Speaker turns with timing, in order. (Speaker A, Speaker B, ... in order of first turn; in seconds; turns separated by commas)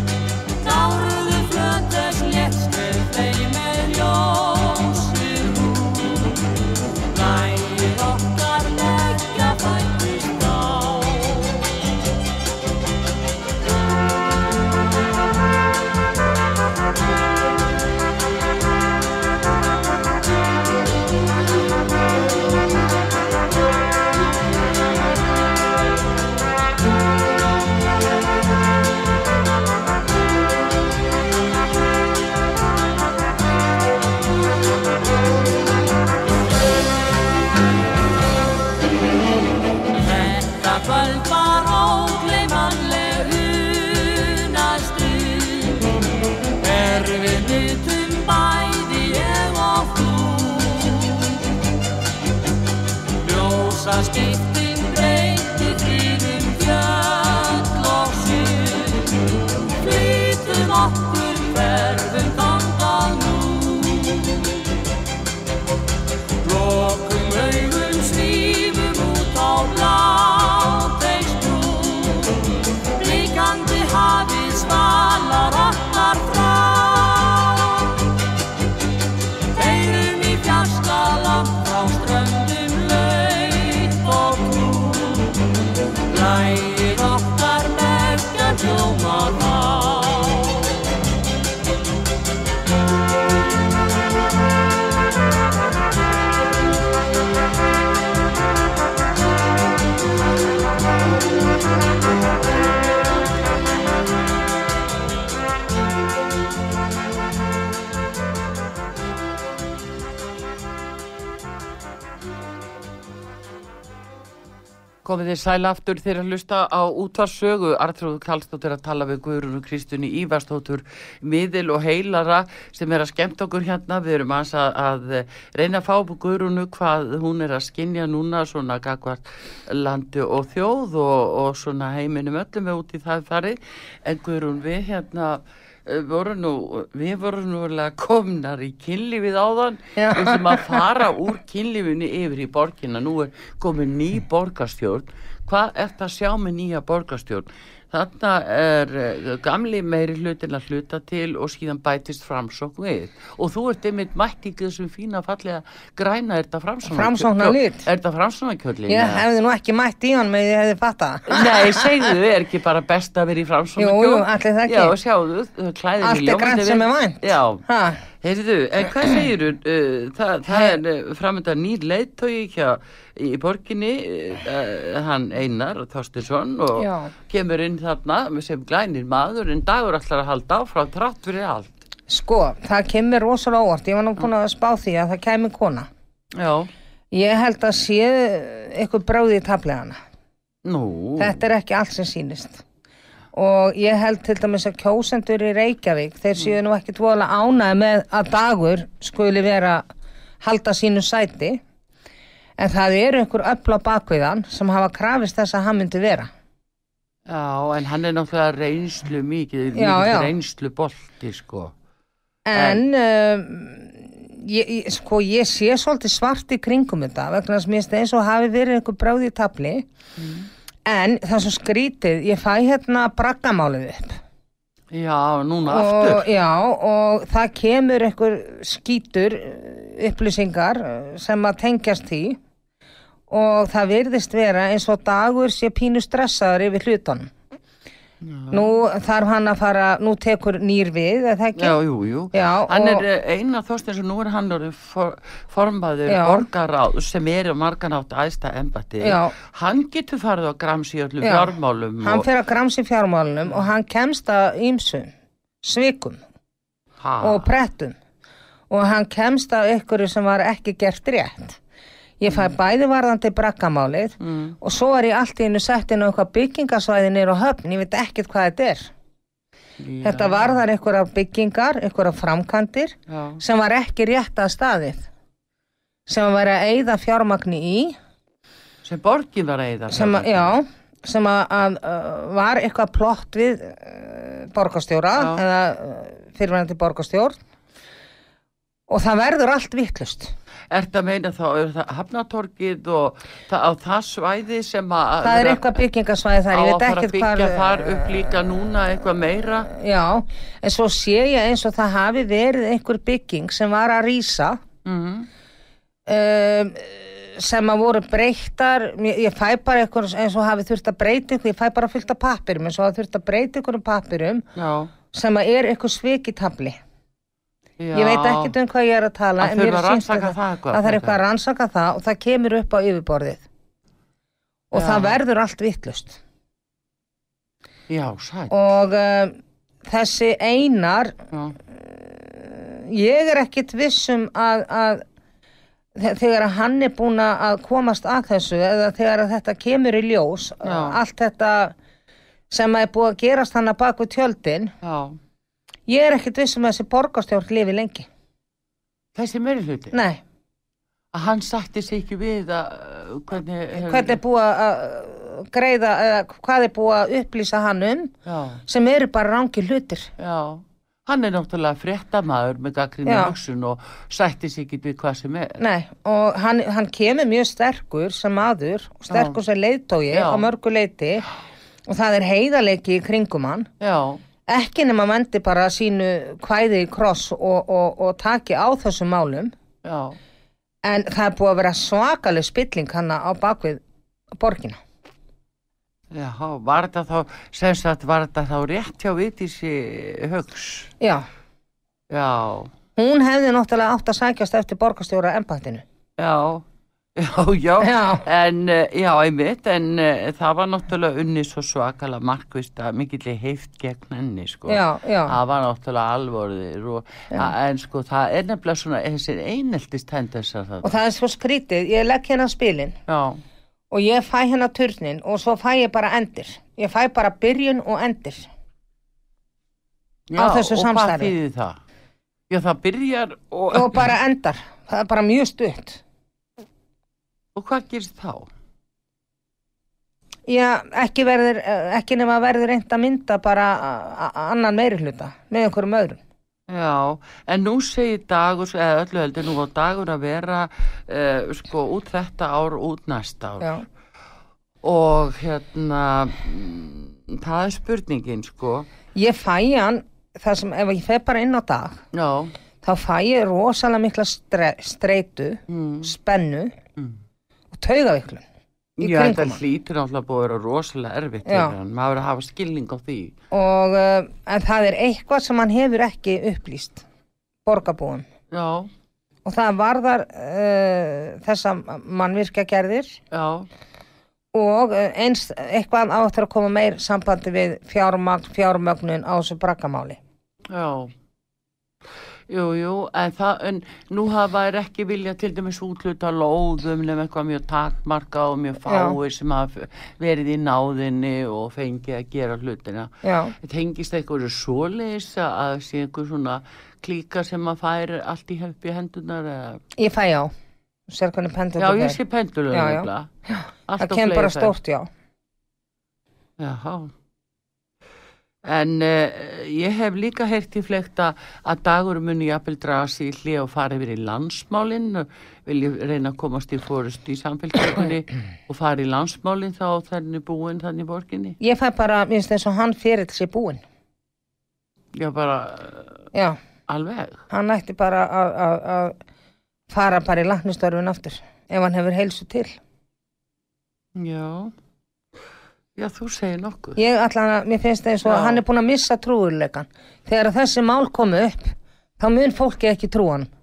Speaker A: 0.6-11.7, Speaker A: 39.9-46.0, Speaker A: 46.6-51.4, Speaker A: 53.2-64.7, Speaker A: 66.4-78.0, Speaker A: 79.5-90.8, Speaker B: 115.0-159.2, Speaker C: 140.0-140.8, Speaker C: 156.9-157.9, Speaker C: 158.9-162.1, Speaker B: 161.3-167.6, Speaker C: 163.8-164.9, Speaker C: 166.0-168.0, Speaker B: 168.2-181.8, Speaker C: 170.5-170.8, Speaker C: 176.8-177.1, Speaker C: 182.1-185.9, Speaker B: 186.3-186.7, Speaker C: 187.1-190.0, Speaker B: 190.7-191.4, Speaker C: 191.2-192.6, Speaker C: 193.3-199.8, Speaker C: 200.4-201.6, Speaker C: 202.6-206.3, Speaker B: 207.3-211.7, Speaker C: 209.7-210.3, Speaker C: 212.5-219.8, Speaker B: 212.5-212.8, Speaker B: 220.2-220.5, Speaker C: 220.9-224.2, Speaker B: 224.9-226.3, Speaker C: 225.7-232.4, Speaker C: 233.3-237.3, Speaker B: 238.2-238.6, Speaker C: 238.5-241.8, Speaker B: 241.6-252.3, Speaker C: 242.3-243.1, Speaker C: 246.1-246.5, Speaker C: 249.0-249.3, Speaker C: 251.2-255.1, Speaker C: 255.6-256.2, Speaker B: 257.0-257.5, Speaker C: 257.2-258.0, Speaker C: 258.7-261.6, Speaker C: 262.2-268.9, Speaker B: 264.2-264.6, Speaker B: 269.8-270.6, Speaker C: 270.0-275.1, Speaker B: 273.1-273.4, Speaker C: 276.1-278.0, Speaker B: 278.8-280.6, Speaker C: 279.9-287.4, Speaker B: 285.2-285.4, Speaker C: 288.9-290.3, Speaker B: 290.7-295.8, Speaker C: 295.2-298.1, Speaker B: 296.5-299.7, Speaker C: 299.7-304.6, Speaker B: 304.9-305.3, Speaker C: 306.1-314.4, Speaker B: 314.6-314.9, Speaker C: 315.1-316.8, Speaker B: 317.8-318.5, Speaker C: 317.9-323.4, Speaker B: 319.4-321.2, Speaker C: 324.7-326.2, Speaker B: 324.7-325.2, Speaker B: 327.9-328.5, Speaker C: 328.5-331.1, Speaker C: 331.7-335.0, Speaker C: 336.0-341.8, Speaker B: 340.6-341.0, Speaker C: 342.5-344.7, Speaker B: 344.8-345.2, Speaker C: 345.9-348.1, Speaker B: 349.1-349.9, Speaker C: 349.9-350.2, Speaker B: 351.1-354.2, Speaker C: 353.7-358.1, Speaker B: 358.3-358.6, Speaker C: 358.7-360.1, Speaker B: 360.2-365.6, Speaker C: 363.1-363.4, Speaker C: 365.6-371.3, Speaker B: 369.1-369.4, Speaker B: 370.1-370.5, Speaker C: 371.9-373.7, Speaker B: 373.8-374.2, Speaker C: 374.5-379.5, Speaker B: 379.8-380.2, Speaker C: 380.9-383.8, Speaker C: 384.4-384.8, Speaker B: 386.1-390.9, Speaker C: 391.0-391.3, Speaker B: 392.1-392.7, Speaker C: 393.0-395.8, Speaker B: 396.2-396.6, Speaker B: 397.2-410.9, Speaker C: 397.8-398.2, Speaker C: 404.7-405.4, Speaker C: 410.8-413.0, Speaker B: 413.1-413.4, Speaker C: 413.9-418.5, Speaker B: 420.3-421.8, Speaker C: 420.4-421.3, Speaker B: 422.5-424.1, Speaker C: 423.7-426.0, Speaker B: 427.6-428.5, Speaker C: 430.5-436.2, Speaker B: 436.7-443.8, Speaker B: 444.8-448.9, Speaker C: 449.1-452.0, Speaker B: 452.1-452.6, Speaker C: 452.8-456.8, Speaker B: 455.7-456.1, Speaker C: 457.7-458.4, Speaker B: 459.0-463.4, Speaker C: 459.0-459.6, Speaker C: 461.5-461.8, Speaker C: 463.5-467.1, Speaker C: 467.7-468.3, Speaker B: 468.5-468.9, Speaker C: 469.4-473.2, Speaker B: 473.3-473.7, Speaker C: 474.5-480.2, Speaker B: 480.7-481.1, Speaker B: 482.5-499.8, Speaker C: 488.9-489.2, Speaker C: 493.2-493.6, Speaker C: 500.0-500.5, Speaker C: 501.1-502.2, Speaker B: 501.8-503.3, Speaker C: 502.7-505.1, Speaker B: 503.9-504.8, Speaker B: 506.6-507.1, Speaker B: 508.6-521.6, Speaker C: 521.6-523.8, Speaker B: 525.1-526.2, Speaker C: 526.3-526.6, Speaker B: 526.9-527.4, Speaker C: 527.5-529.2, Speaker C: 529.9-532.8, Speaker B: 534.1-534.7, Speaker B: 536.0-537.0, Speaker C: 537.0-543.5, Speaker B: 538.2-538.6